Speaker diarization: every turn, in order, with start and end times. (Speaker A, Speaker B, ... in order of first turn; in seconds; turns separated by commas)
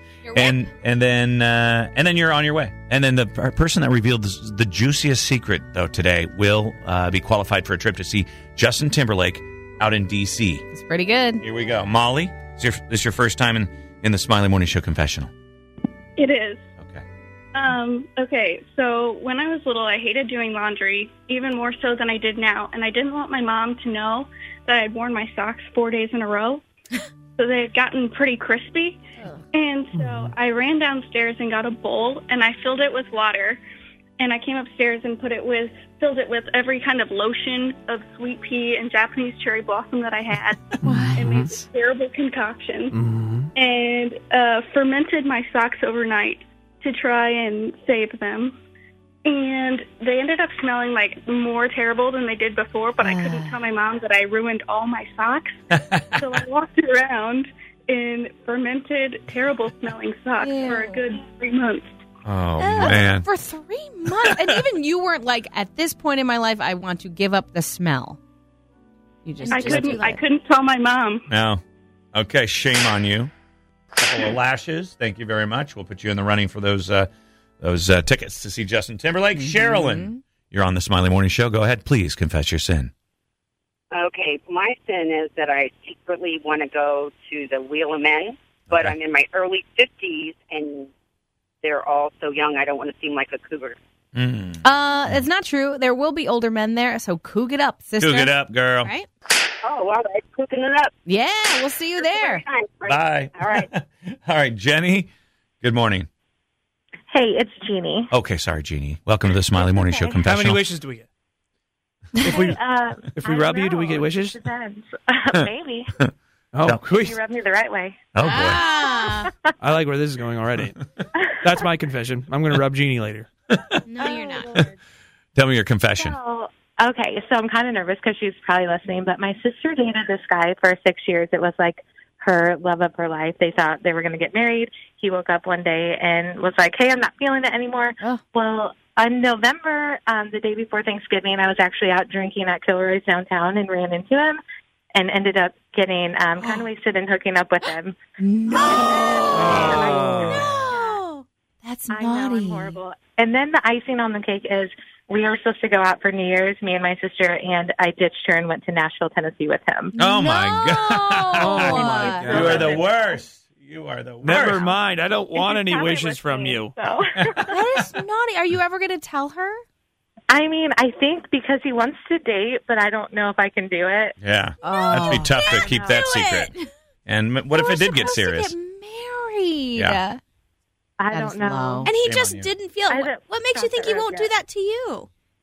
Speaker A: 0.3-0.5, Speaker B: 0.3-10.6, Speaker C: 10.7-11.4, Speaker B: 11.4-15.3, Speaker D: 16.2-16.6, Speaker B: 16.8-17.0, Speaker D: 17.5-26.6, Speaker D: 27.4-29.0, Speaker D: 29.5-33.6, Speaker E: 29.9-30.3, Speaker D: 34.2-43.0, Speaker C: 40.8-41.2, Speaker E: 40.9-41.5, Speaker E: 42.9-43.5, Speaker D: 43.5-48.6, Speaker D: 49.2-55.6, Speaker C: 53.0-53.6, Speaker B: 55.7-56.0, Speaker D: 56.1-61.9, Speaker C: 60.4-61.0, Speaker B: 62.2-63.3, Speaker C: 62.6-68.2, Speaker C: 69.2-70.2, Speaker D: 69.5-71.2, Speaker E: 69.6-69.9, Speaker B: 71.3-71.6, Speaker B: 72.1-73.3, Speaker B: 74.0-82.9, Speaker C: 79.4-80.2, Speaker F: 83.9-90.9, Speaker B: 88.7-89.0, Speaker F: 91.6-93.8, Speaker B: 94.1-95.2, Speaker C: 94.6-99.0, Speaker B: 98.0-98.9, Speaker F: 99.6-100.9, Speaker C: 101.0-102.4, Speaker F: 102.0-103.7, Speaker B: 102.8-105.1, Speaker B: 105.6-106.1, Speaker G: 107.1-108.1, Speaker B: 108.1-110.6, Speaker G: 109.5-110.3, Speaker E: 110.2-111.0, Speaker E: 112.2-112.6, Speaker G: 112.3-115.9, Speaker E: 113.2-114.4, Speaker E: 116.5-117.2, Speaker B: 116.6-116.9, Speaker G: 116.9-119.3, Speaker B: 118.1-118.6, Speaker C: 118.2-119.3, Speaker E: 119.6-120.8, Speaker E: 121.4-123.3, Speaker B: 123.5-124.0, Speaker C: 123.9-124.5, Speaker G: 124.0-124.7, Speaker B: 125.3-126.2, Speaker G: 125.9-144.4, Speaker G: 144.9-148.0, Speaker C: 148.2-148.9, Speaker G: 148.5-151.0, Speaker E: 149.3-150.3, Speaker C: 150.4-150.8, Speaker C: 151.6-152.8, Speaker G: 151.9-159.9, Speaker C: 159.9-162.5, Speaker B: 159.9-164.7, Speaker E: 161.4-162.8, Speaker G: 161.7-162.9, Speaker E: 164.2-166.7, Speaker G: 164.4-164.7, Speaker G: 165.3-167.6, Speaker F: 165.8-166.6, Speaker C: 167.5-169.6, Speaker G: 170.3-174.2, Speaker B: 174.2-176.5, Speaker C: 174.6-176.6, Speaker A: 174.6-174.9, Speaker G: 175.0-176.1, Speaker A: 176.1-176.4, Speaker B: 177.1-178.5, Speaker C: 177.5-180.2, Speaker B: 179.8-180.0, Speaker G: 181.0-181.9, Speaker C: 181.1-181.9, Speaker A: 181.8-185.1, Speaker B: 181.9-182.6, Speaker G: 182.9-184.3